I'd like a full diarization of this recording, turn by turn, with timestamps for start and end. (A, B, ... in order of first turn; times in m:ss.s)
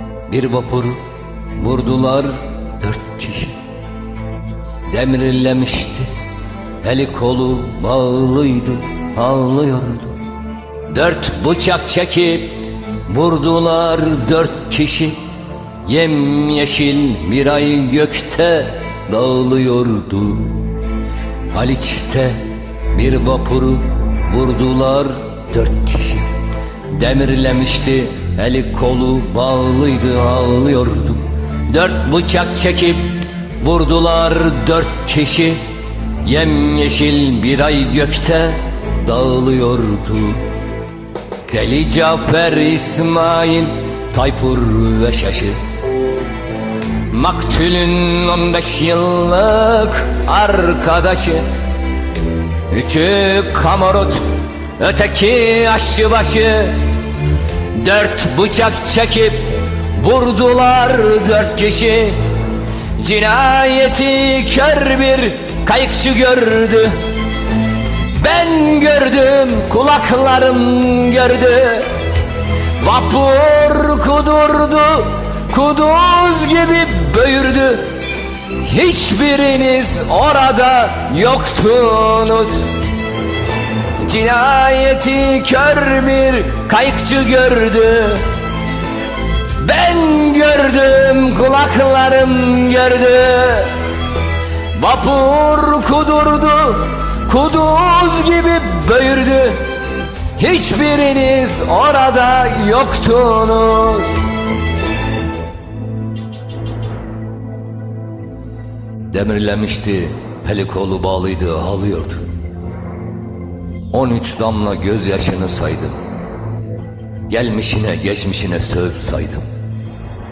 0:00.3-0:03.6 A
0:04.8-0:06.1 A
0:06.8-0:10.2 A
0:10.9-0:15.2 A
0:15.8-0:20.8 A
0:21.5-0:26.3 A
0:26.9-0:35.6 A
0:36.2-0:40.5 A
0:41.4-0:45.6 A
0:47.1-0:51.4 A
0:52.7-0:56.8 A
0:57.7-1:02.2 A
1:03.0-1:07.0 A
1:08.1-1:11.9 A
1:12.8-1:18.0 A
1:18.5-1:22.7 A
1:24.0-1:28.3 A
1:29.6-1:33.7 A
1:34.7-1:39.6 A
1:40.4-1:44.2 A
1:49.1-1:52.2 A
1:53.9-1:56.0 A
1:57.3-1:59.4 A